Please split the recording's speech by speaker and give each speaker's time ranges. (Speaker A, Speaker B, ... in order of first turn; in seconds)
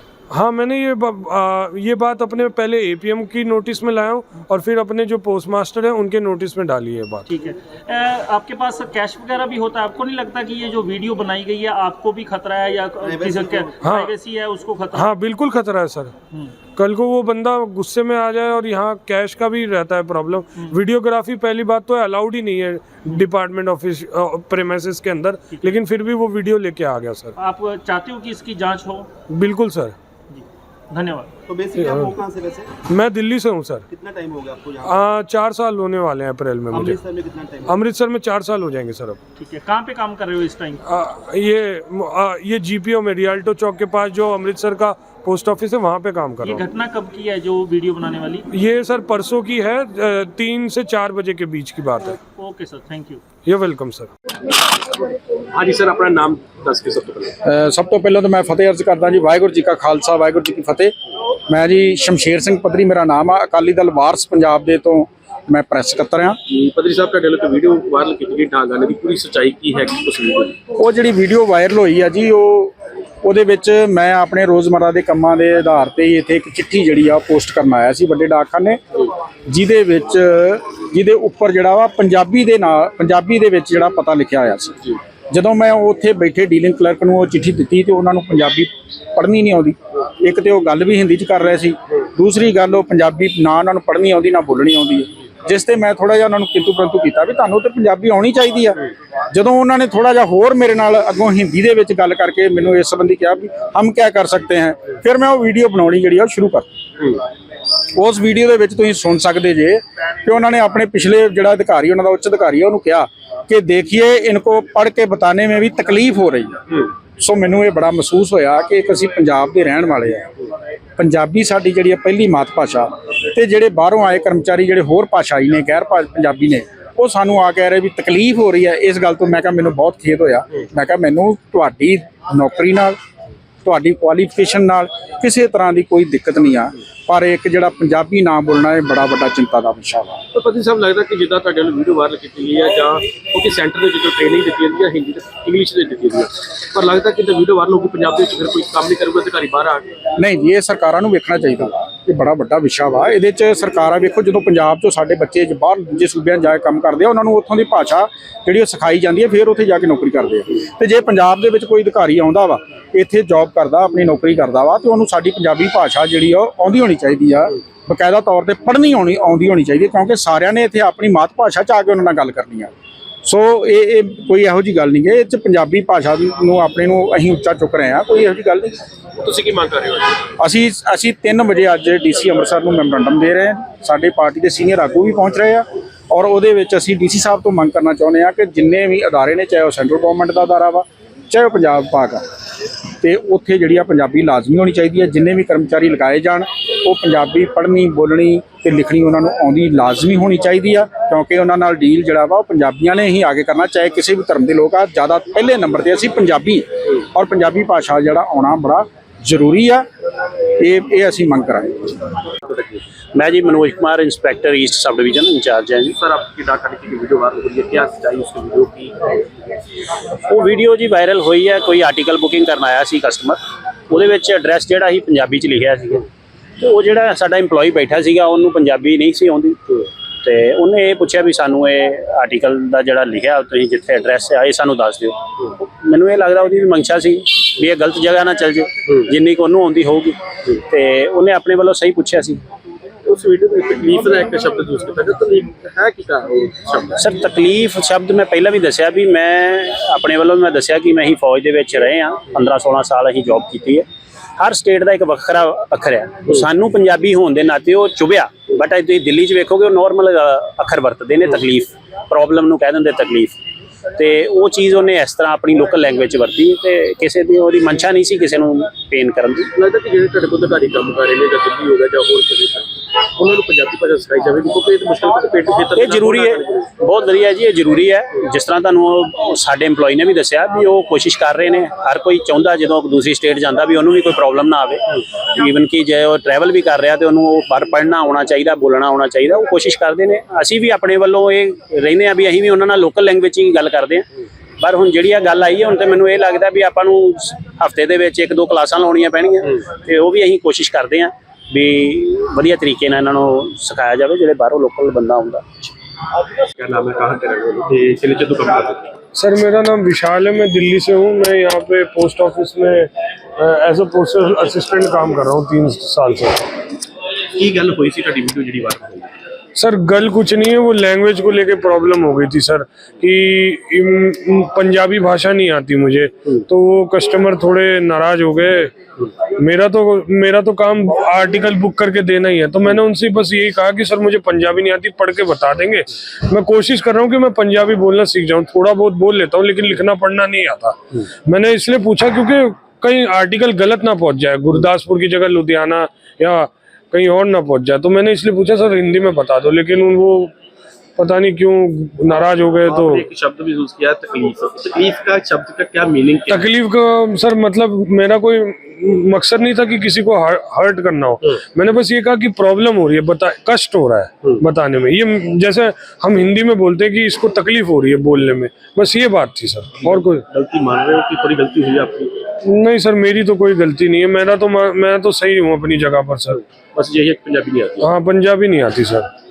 Speaker A: 0.3-7.3, 13.8-14.1, 14.9-16.1, 16.8-27.3, 29.3-29.9, 31.8-32.2, 32.9-33.9, 34.9-37.0, 37.7-39.2, 40.9-46.6, 48.5-52.2, 53.5-54.1, 309.1-316.4, 319.6-328.7, 329.3-350.3, 351.0-353.1, 356.3-370.2, 372.4-376.4, 377.8-379.1
Speaker B: 7.3-15.1, 25.5-25.8, 27.4-29.1, 30.3-31.3, 39.4-40.8, 46.4-48.5, 52.2-53.2
Speaker C: 13.0-13.7, 31.5-32.7, 33.9-34.9, 36.8-37.7
Speaker D: 55.5-57.3, 66.5-70.5, 140.3-149.8, 179.2-180.2, 216.0-219.2, 243.0-247.0, 269.6-276.7, 306.6-308.8, 317.4-319.1, 352.6-356.5, 369.7-372.2, 376.8-377.9
Speaker E: 57.4-60.9, 61.5-66.4, 70.8-78.8, 79.5-106.7, 108.0-120.3, 121.0-133.0, 133.6-140.2, 150.2-172.7, 173.2-178.8, 180.4-192.2, 193.0-209.9, 210.6-212.0
Speaker F: 213.2-215.9, 220.2-226.1, 226.6-242.4, 246.9-253.9, 254.4-263.4, 264.0-269.5, 275.8-294.1, 294.6-305.7